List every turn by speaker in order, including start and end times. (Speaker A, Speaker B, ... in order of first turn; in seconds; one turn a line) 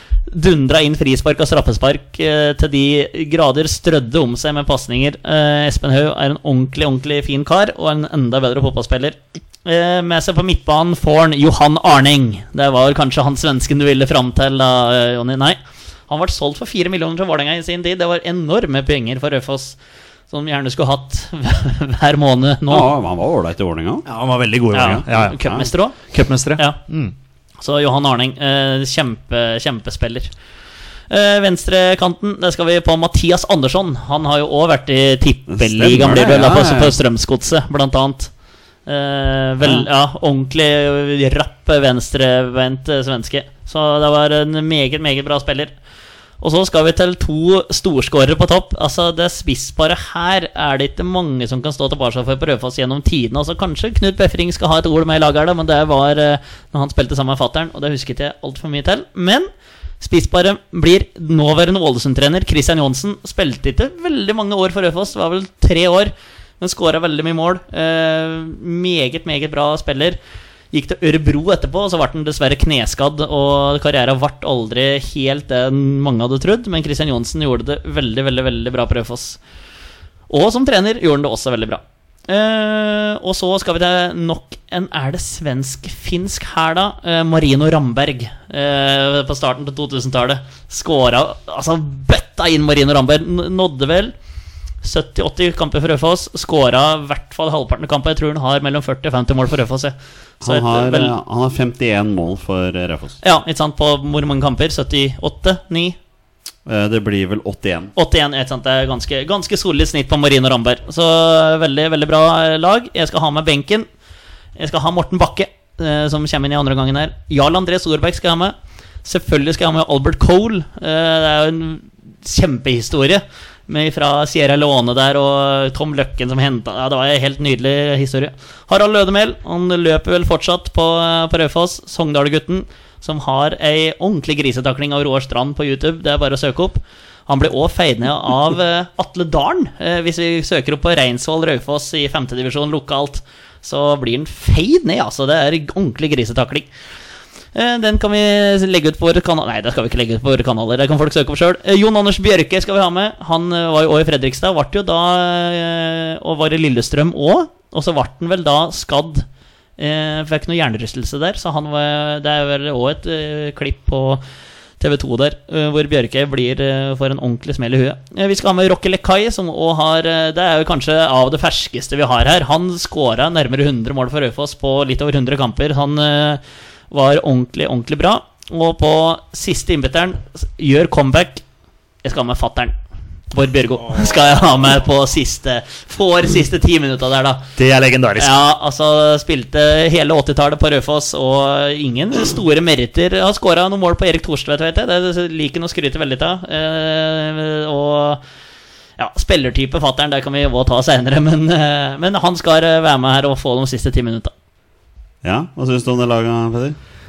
Speaker A: 0.3-19.8
Speaker A: 20.3-22.9
Speaker B: 22.7-24.1
Speaker C: 24.1-25.4
Speaker A: 24.7-26.0
Speaker B: 24.8-25.7
Speaker C: 26.0-27.1
Speaker A: 27.6-30.3
Speaker A: 31.1-38.3
Speaker B: 35.5-37.0
Speaker A: 38.9-45.8
Speaker B: 39.6-39.9
Speaker A: 46.4-59.5
Speaker A: 60.0-70.2
Speaker A: 70.7-79.4
Speaker A: 80.3-94.1
Speaker A: 94.8-101.1
Speaker B: 100.4-103.2
Speaker A: 103.2-106.0
Speaker B: 106.7-107.9
Speaker A: 108.0-113.9
Speaker A: 114.6-146.7
Speaker A: 147.5-159.3
Speaker A: 159.8-164.2
Speaker A: 164.8-181.4
Speaker A: 182.0-182.8
Speaker A: 183.3-187.4
Speaker C: 187.6-188.4
Speaker A: 188.2-198.2
Speaker A: 199.0-204.3
Speaker B: 205.2-206.8